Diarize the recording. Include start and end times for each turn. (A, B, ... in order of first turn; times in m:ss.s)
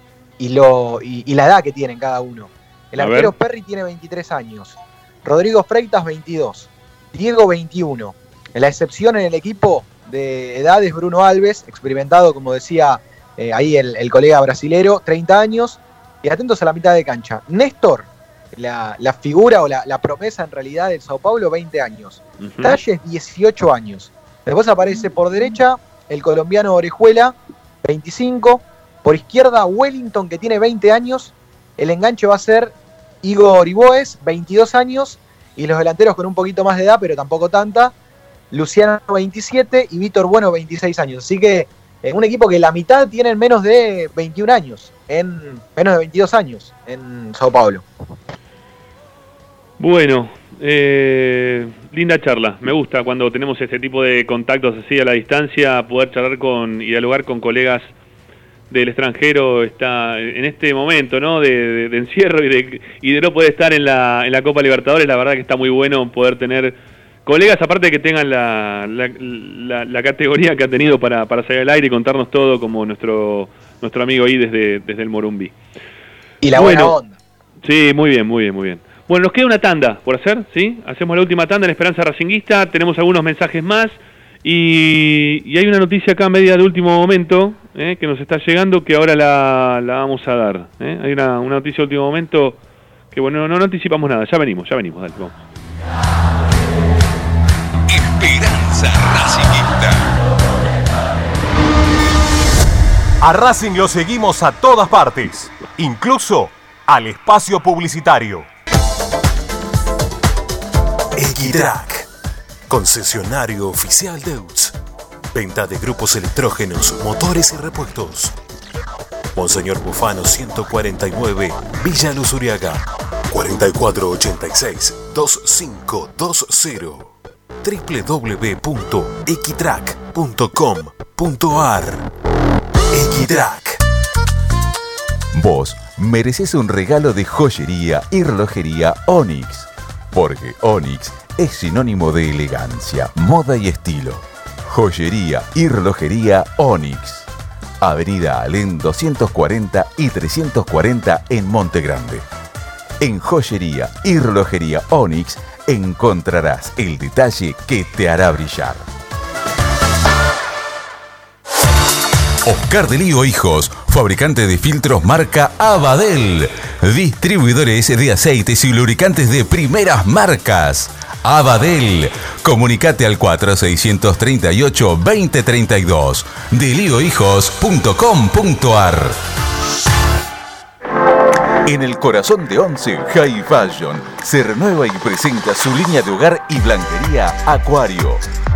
0:00.4-0:37.9 A
0:03.0-0:03.3 B
0:22.4-0:22.8 B
0:38.5-0:47.8 A
0:49.8-0:57.9 B
0:58.7-1:15.6 B
1:16.4-1:17.2 A
1:16.5-1:16.9 B
1:17.6-1:32.6 B
1:33.1-1:35.4 B
1:37.9-1:40.1 C
1:43.2-1:48.5 D
1:51.1-1:52.1 E
1:52.7-1:54.8 E
1:55.3-1:58.3 E
1:59.3-2:12.1 E
2:12.9-2:13.8 E
2:15.3-2:27.3 C
2:27.8-2:32.2 C
2:33.0-2:38.8 C
2:42.4-2:59.2 C
3:01.6-3:08.2 C